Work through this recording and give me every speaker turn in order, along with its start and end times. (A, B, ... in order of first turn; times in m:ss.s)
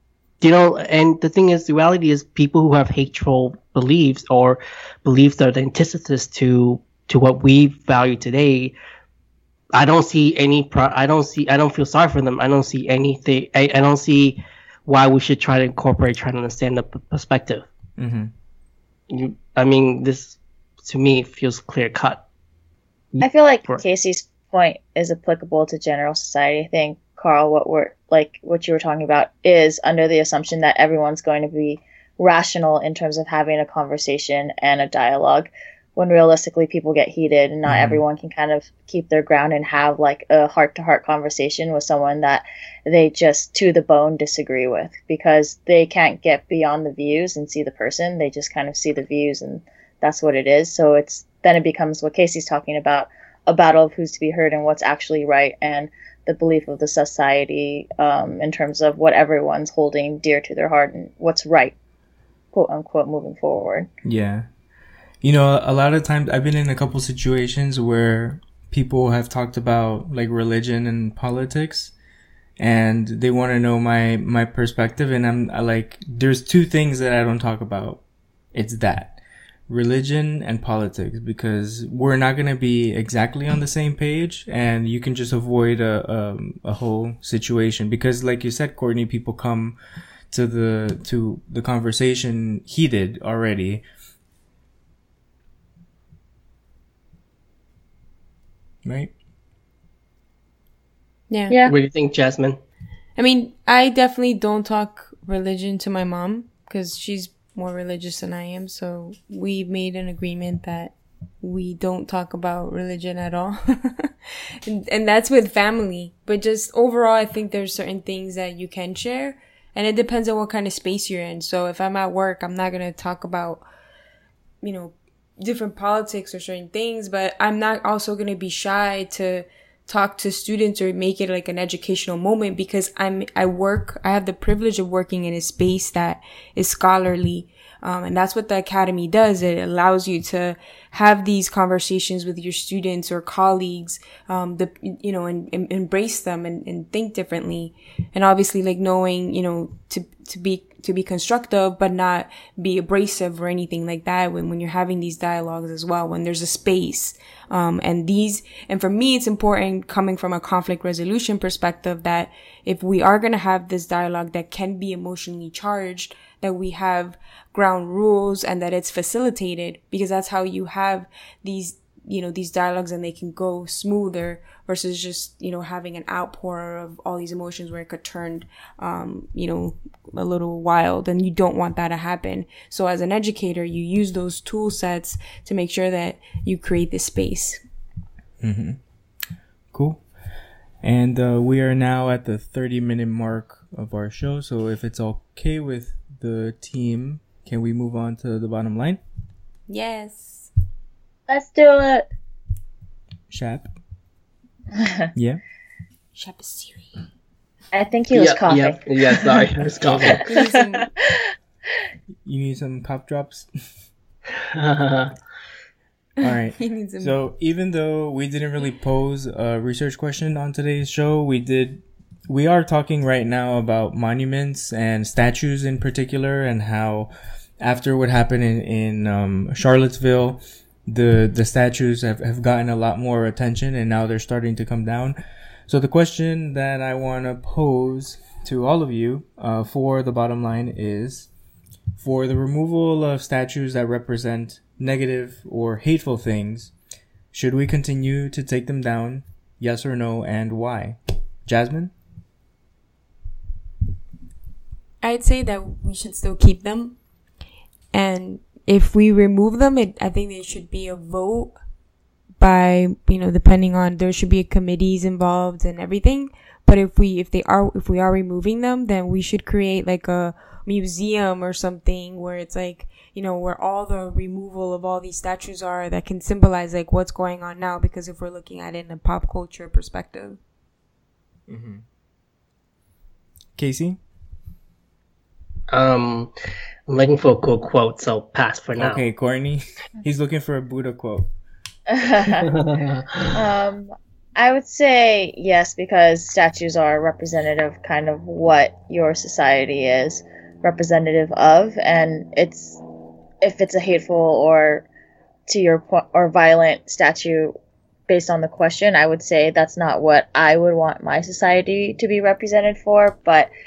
0:00.4-0:08.7 A
0:09.7-0:17.7 A
0:18.0-0:18.3 B
0:19.1-0:22.2 A
0:23.1-0:23.8 A
0:23.2-1:01.7 C
0:37.6-0:38.0 B
1:02.5-1:03.9 C
1:04.0-1:04.5 B
1:05.2-1:11.9 B
1:12.6-1:18.0 B
1:18.5-1:29.8 B
1:30.3-1:33.8 B
1:38.8-1:39.1 B
1:41.3-1:41.5 D
1:41.6-1:42.6 A
1:43.2-2:03.6 D
2:04.6-3:07.6 D
3:08.4-3:08.8 B
3:09.7-3:10.0 B
3:10.8-3:19.0 B
3:19.7-3:20.5 D
3:21.3-3:22.1 C
3:23.3-3:23.7 B
3:25.1-3:25.4 B
3:26.1-3:26.9 D
3:27.7-3:29.4 C
3:28.1-3:30.2 A
3:30.2-3:30.9 D
3:30.4-3:31.2 C
3:32.2-3:33.5 B
3:34.4-3:35.1 A
3:36.2-3:55.2 B
3:36.2-3:37.1 D
3:55.7-4:01.3 B
4:02.0-4:06.7 B
4:07.3-4:11.9 B
4:15.0-4:17.0 D
4:17.9-4:21.6 D
4:22.4-4:40.4 D
4:41.5-4:41.8 B
4:43.6-4:44.0 B
4:45.7-4:46.3 A
4:46.9-4:49.0 A
4:48.8-4:51.3 B
4:51.9-4:52.5 C
4:52.4-4:53.3 A
4:53.3-5:02.8 C
5:03.4-5:04.9 C
5:05.5-5:07.5 C
5:08.1-5:13.5 C